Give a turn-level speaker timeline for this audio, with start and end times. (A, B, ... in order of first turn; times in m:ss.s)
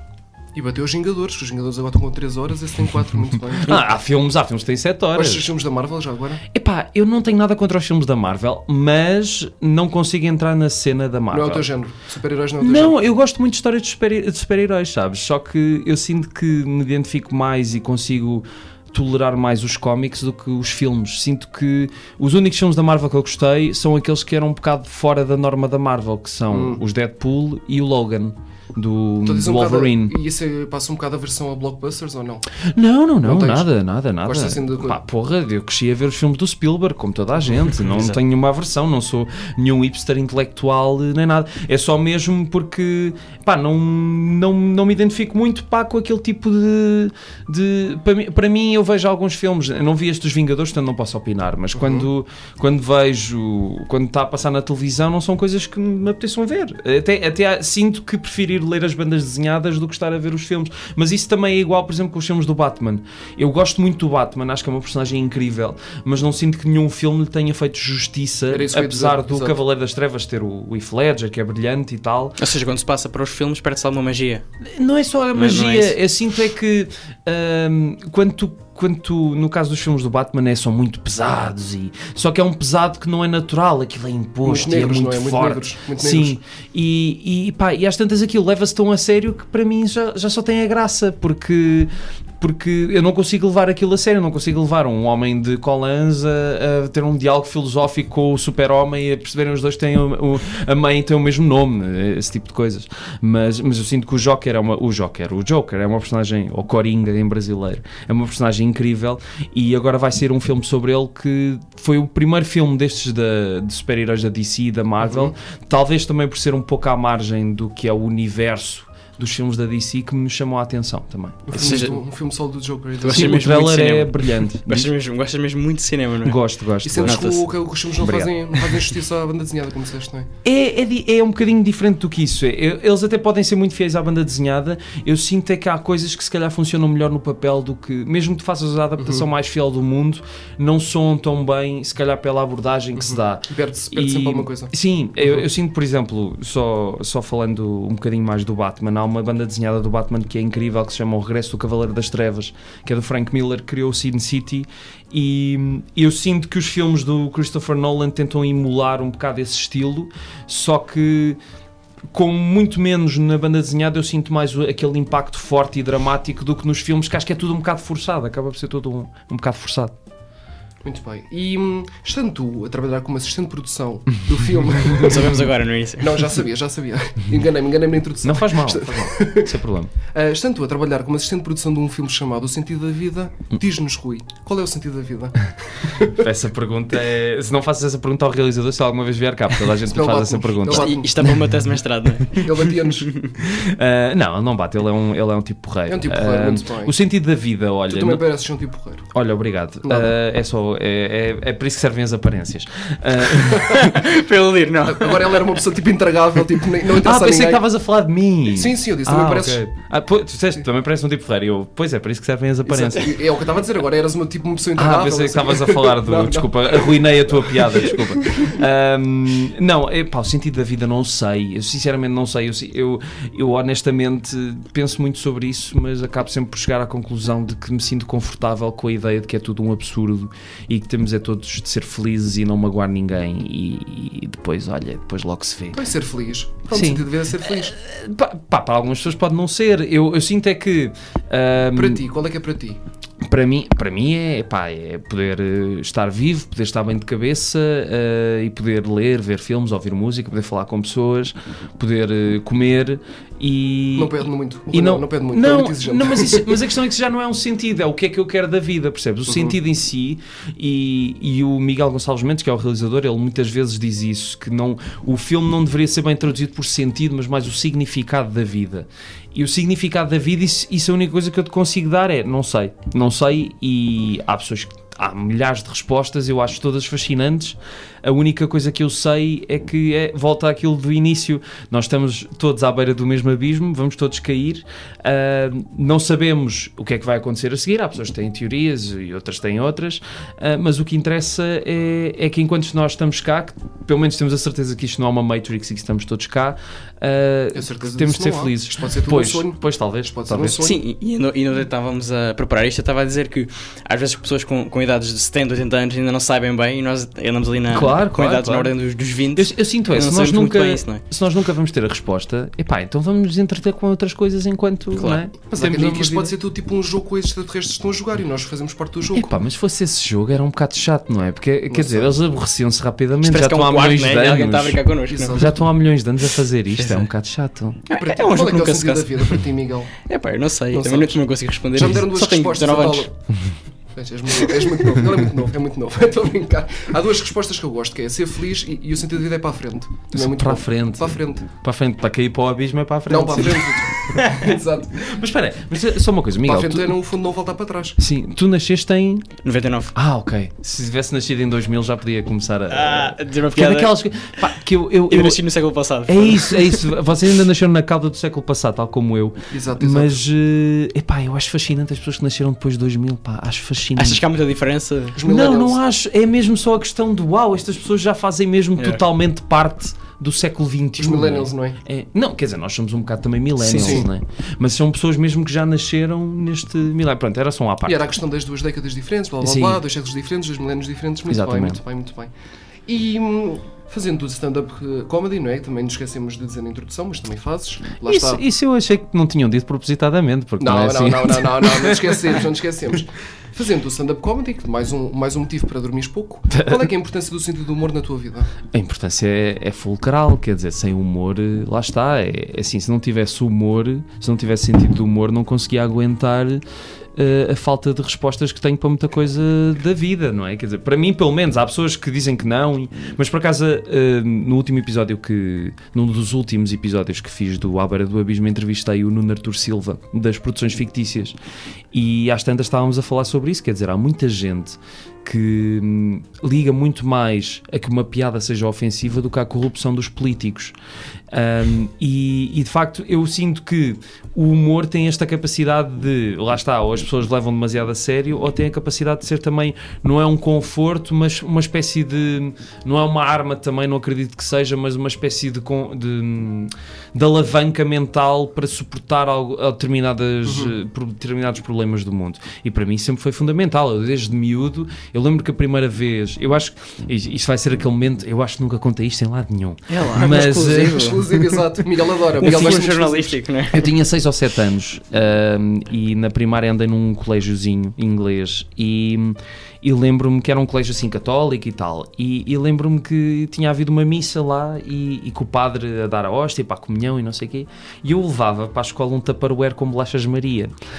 0:00.6-0:03.8 A
0:03.6-0:05.5 B
0:05.2-0:06.4 A
0:06.5-0:11.7 B
0:11.3-0:13.0 A
0:12.6-0:30.2 B
0:26.5-0:26.8 A
0:29.2-0:32.4 A
0:32.7-1:12.4 B
0:33.2-0:33.7 A
0:34.2-0:35.0 A
0:37.8-0:38.2 C
0:51.7-0:52.1 A
1:08.5-1:09.6 A
1:12.4-1:14.4 C
1:14.8-2:02.0 B
1:15.3-1:16.0 C
1:24.4-1:26.4 A
1:55.0-1:55.3 A
2:01.5-2:03.6 A
2:01.6-2:01.9 C
2:03.0-2:06.4 C
2:03.1-2:04.9 B
2:06.2-2:07.3 B
2:06.8-2:10.3 A
2:07.0-2:07.4 C
2:08.0-2:08.3 B
2:10.4-2:41.4 B
2:19.0-2:19.2 A
2:23.0-2:24.7 A
2:42.1-2:50.0 B
2:50.8-2:55.4 A
2:54.9-2:56.3 C
2:56.0-2:59.5 A
2:58.2-2:59.9 B
3:00.1-3:06.2 A
3:06.0-3:11.0 B
3:09.9-3:11.1 A
3:10.7-3:13.4 C
3:12.3-3:13.1 A
3:13.4-3:18.2 B
3:15.9-3:16.9 A
3:17.9-3:19.1 A
3:19.1-3:24.0 B
3:19.8-3:20.1 A
3:23.4-3:23.9 A
3:23.7-3:25.5 C
3:24.8-3:27.6 A
3:27.0-3:33.2 B
3:28.5-3:29.6 A
3:32.7-3:38.2 A
3:34.8-3:55.8 B
3:55.7-3:57.8 A
3:56.7-4:02.0 B
4:01.7-4:02.8 A
4:03.2-5:00.6 B
4:14.0-4:16.6 A
4:19.3-4:19.6 A
4:57.5-5:00.8 A
5:00.6-5:11.0 C
5:07.7-5:08.7 B
5:09.4-5:16.4 B
5:14.9-5:15.2 C
5:15.5-5:19.4 A
5:19.1-5:27.8 B
5:21.7-5:22.4 A
5:23.2-5:25.5 C
5:25.1-5:25.6 A
5:26.8-5:27.1 C
5:27.9-5:29.4 C
5:27.9-5:29.9 A
5:30.0-5:33.1 C
5:30.7-5:31.2 A
5:31.7-5:33.1 A
5:34.0-5:41.5 A
5:40.1-5:44.4 B
5:43.1-5:45.0 A
5:45.0-5:47.0 B
5:46.4-5:48.0 A
5:48.0-5:49.3 B
5:49.4-5:49.9 C
5:49.9-5:55.4 B
5:52.7-5:54.0 C
5:55.1-5:56.8 C
5:56.1-6:04.2 B
5:59.5-6:00.2 A
6:04.0-6:05.2 C
6:05.2-6:05.8 A
6:05.2-6:18.1 B
6:11.0-6:11.8 A
6:13.6-6:14.1 A
6:13.7-6:14.0 C
6:17.9-6:22.3 A
6:19.4-6:19.8 B
6:21.3-6:21.8 B
6:22.9-6:28.4 A
6:28.0-6:32.3 B
6:30.6-6:38.5 A
6:36.5-6:36.9 B
6:38.7-6:46.6 B
6:47.2-7:01.4 B
7:01.9-7:10.8 B
7:11.3-7:41.0 B
7:30.4-7:30.8 A
7:39.9-7:41.6 C
7:40.2-7:43.4 A
7:42.4-7:43.9 C
7:43.7-8:00.8 B